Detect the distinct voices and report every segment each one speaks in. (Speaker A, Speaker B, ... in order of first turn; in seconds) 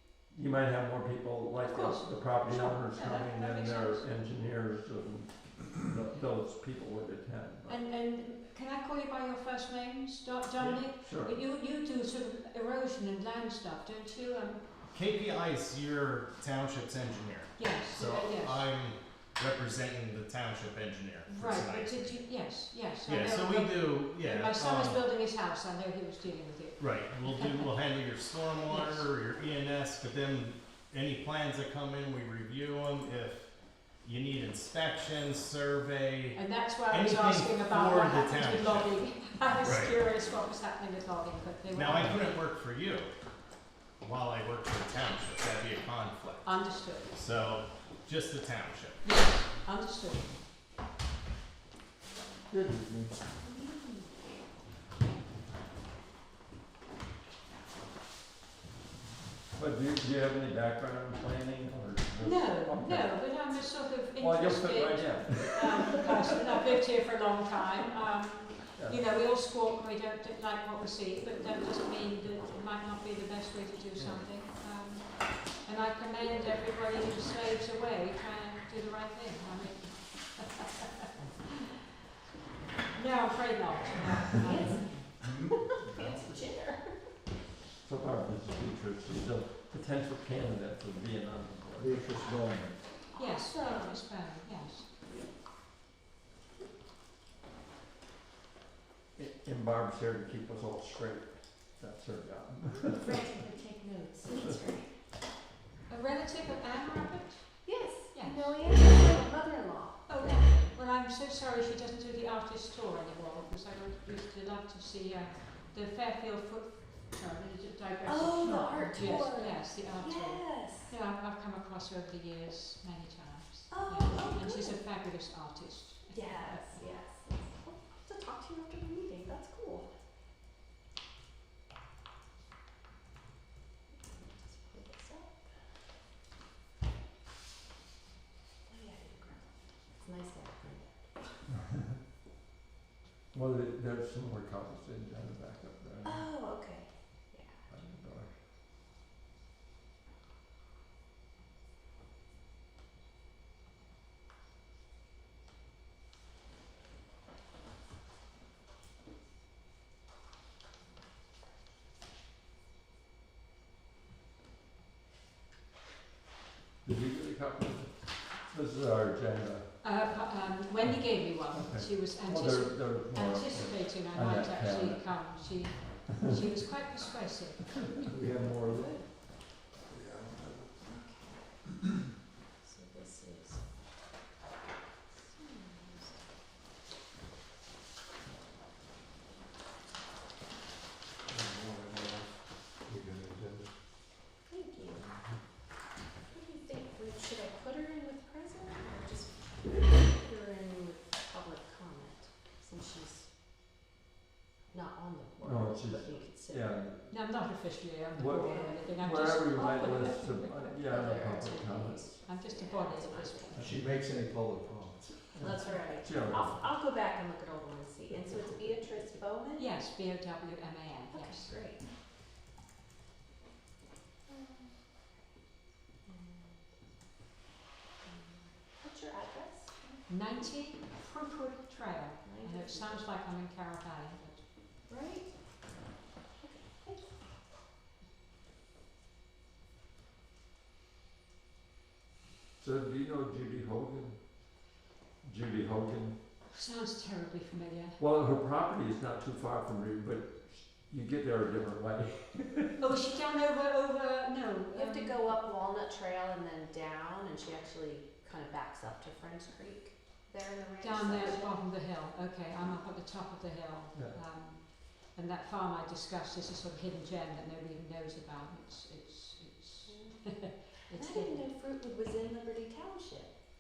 Speaker A: 0.3-7.8, 10.8-11.3, 52.5-53.1, 59.5-63.2, 64.2-66.1, 68.8-69.0, 87.8-92.1, 99.2-103.2, 143.3-146.3, 147.7-148.3, 166.8-167.9, 168.5-169.7, 170.8-175.2, 177.8-179.0, 205.4-207.2, 208.1-212.2, 215.3-216.7, 242.6-244.2, 245.2-246.2, 248.0-252.8
Speaker B: 1.6-4.1, 7.7-14.7, 17.6-18.7, 21.3-27.7, 28.7-29.1, 36.3-42.3, 46.4-47.1, 49.0-50.3, 62.2-81.1, 83.0-85.1, 93.2-94.9, 105.9-108.8, 110.1-126.9, 169.8-177.9, 207.1-210.9, 212.2-213.7, 219.6-221.6, 230.1-234.4, 246.5-248.0, 252.8-255.3, 260.8-271.5
Speaker C: 14.9-22.3, 23.1-25.0, 26.8-39.0, 39.6-40.0, 41.7-43.1, 44.0-49.0
Speaker D: 53.5-54.0, 84.4-87.0, 93.2-94.0, 103.0-104.9, 107.7-110.7, 118.0-120.9, 123.7-124.8, 126.1-129.9, 133.9-135.5, 138.7-141.3, 146.0-147.6, 178.5-179.1, 180.9-181.6, 182.6-183.6, 185.2-186.2, 194.5-195.1, 196.3-203.3, 204.7-206.8, 208.4-208.8, 210.8-213.8, 215.4-219.7, 221.1-221.9, 224.3-225.0, 226.1-226.7, 228.0-230.0, 232.2-233.0, 234.9-235.3, 236.4-237.2, 254.7-261.6, 269.9-270.3, 270.9-273.3
Speaker E: 91.8-92.8, 191.3-193.7, 213.6-215.5